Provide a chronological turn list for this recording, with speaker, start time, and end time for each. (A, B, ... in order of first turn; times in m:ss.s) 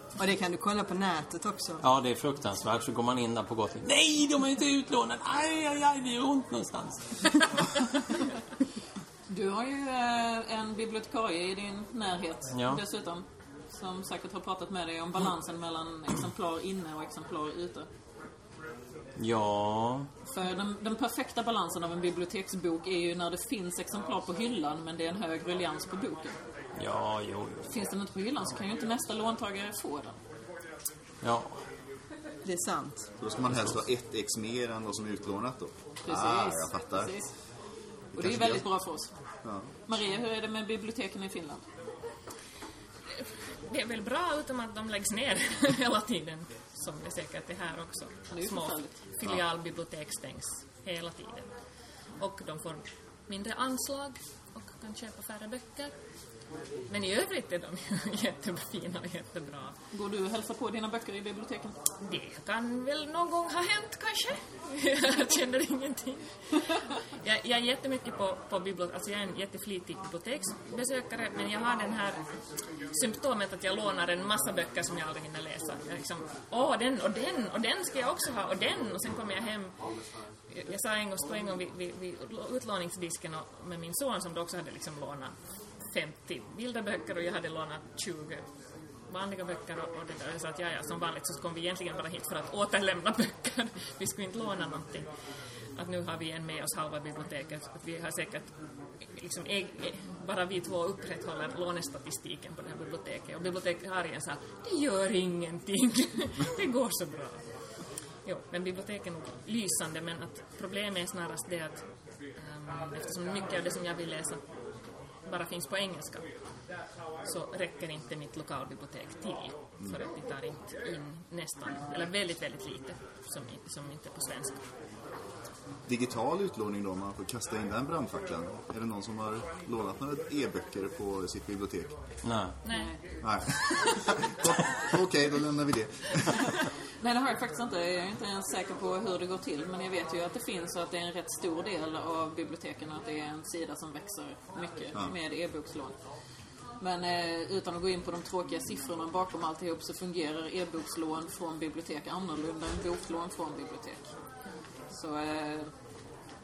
0:00.2-0:01.8 A
0:01.8-0:08.0 B
0:09.3-0:17.9 C
0:12.5-0:12.8 B
0:19.2-0:20.1 B
0:20.3-0:26.4 C
0:26.8-0:27.6 B
0:27.6-0:30.2 C
0:31.2-0:31.5 B
0:32.4-0:33.0 A
0:33.2-0:37.2 D
0:36.0-0:37.3 C
0:38.1-0:38.6 D
0:38.1-0:39.1 C
0:39.9-0:41.6 C
0:43.6-0:51.5 E
0:48.3-0:48.9 C
0:52.2-0:55.9 E
0:56.9-0:59.8 E
0:59.9-1:01.8 C
1:02.0-1:12.2 E
1:12.9-1:19.7 E
1:20.5-1:25.3 E
1:25.9-1:28.4 E
1:29.1-1:35.1 E
1:35.8-1:38.5 E
1:39.1-1:47.4 E
1:48.2-1:51.8 E
1:52.4-1:54.4 E
1:55.2-1:56.3 E
1:57.2-2:04.6 E
2:05.8-2:12.0 D
2:12.2-2:12.5 B
2:12.6-2:12.9 E
2:12.7-2:13.0 C
2:13.2-2:16.5 D
2:17.0-2:25.9 C
2:26.8-2:34.0 C
2:34.9-2:35.7 C